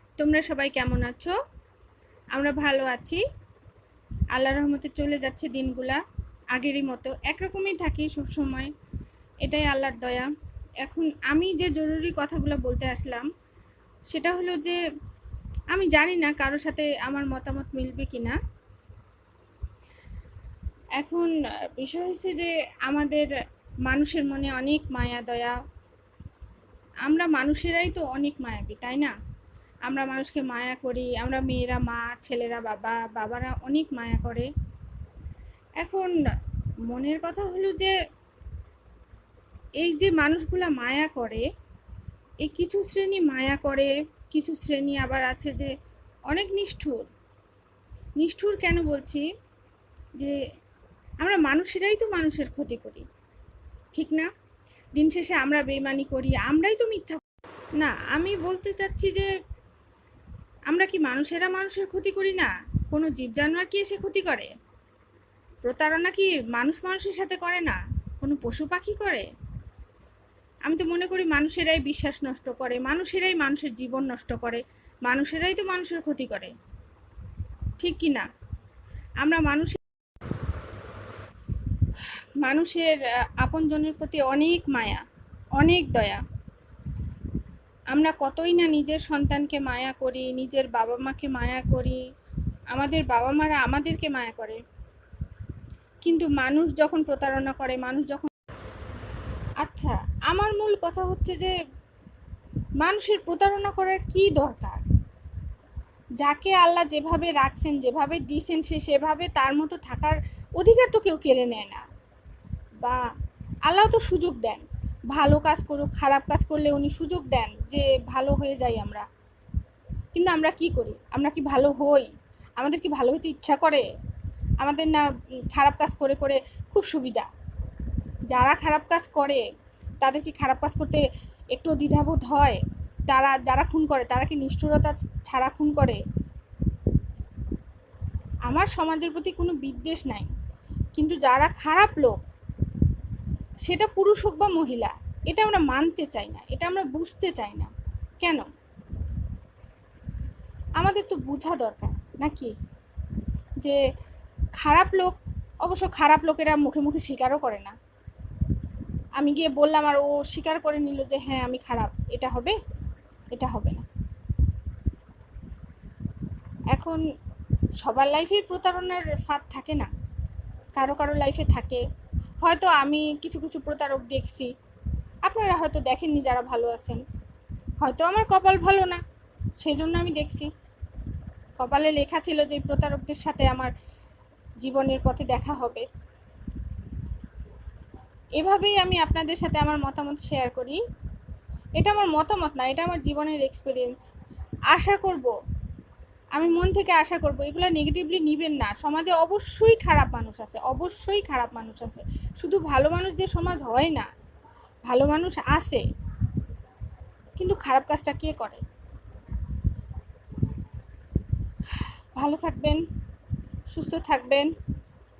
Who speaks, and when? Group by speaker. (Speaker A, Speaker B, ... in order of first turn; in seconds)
Speaker A: 0.2-1.3, 2.3-3.2, 4.3-6.0, 6.5-8.7, 9.4-13.3, 14.1-14.8, 15.7-18.4, 21.0-23.3, 23.9-25.6, 27.0-29.1, 29.9-34.5, 35.8-36.1, 36.9-37.9, 39.8-41.4, 42.4-45.7, 46.3-47.1, 48.2-49.2, 51.2-53.1, 53.9-54.3, 55.0-57.2, 57.8-59.3, 60.7-64.5, 65.6-69.3, 70.6-76.5, 77.8-78.3, 79.2-79.8, 82.4-85.0, 85.6-86.2, 87.9-92.0, 92.7-94.6, 96.0-98.3, 99.6-101.5, 102.8-104.8, 106.2-111.8, 113.7-119.1, 120.1-123.8, 124.6-127.3, 128.3-129.4, 130.0-136.0, 138.4-140.3, 140.9-142.2, 143.6-148.5, 150.8-152.5, 154.6-157.7, 159.2-162.6, 163.3-163.8, 166.7-167.0, 167.8-169.9, 170.8-171.8, 172.4-174.5, 175.2-177.0, 177.8-179.0, 179.6-180.5, 181.6-183.7, 184.6-185.9, 188.4-190.8, 191.8-194.1, 194.7-195.3, 196.3-204.1, 204.9-205.8, 207.4-208.6, 211.7-212.8, 213.7-214.5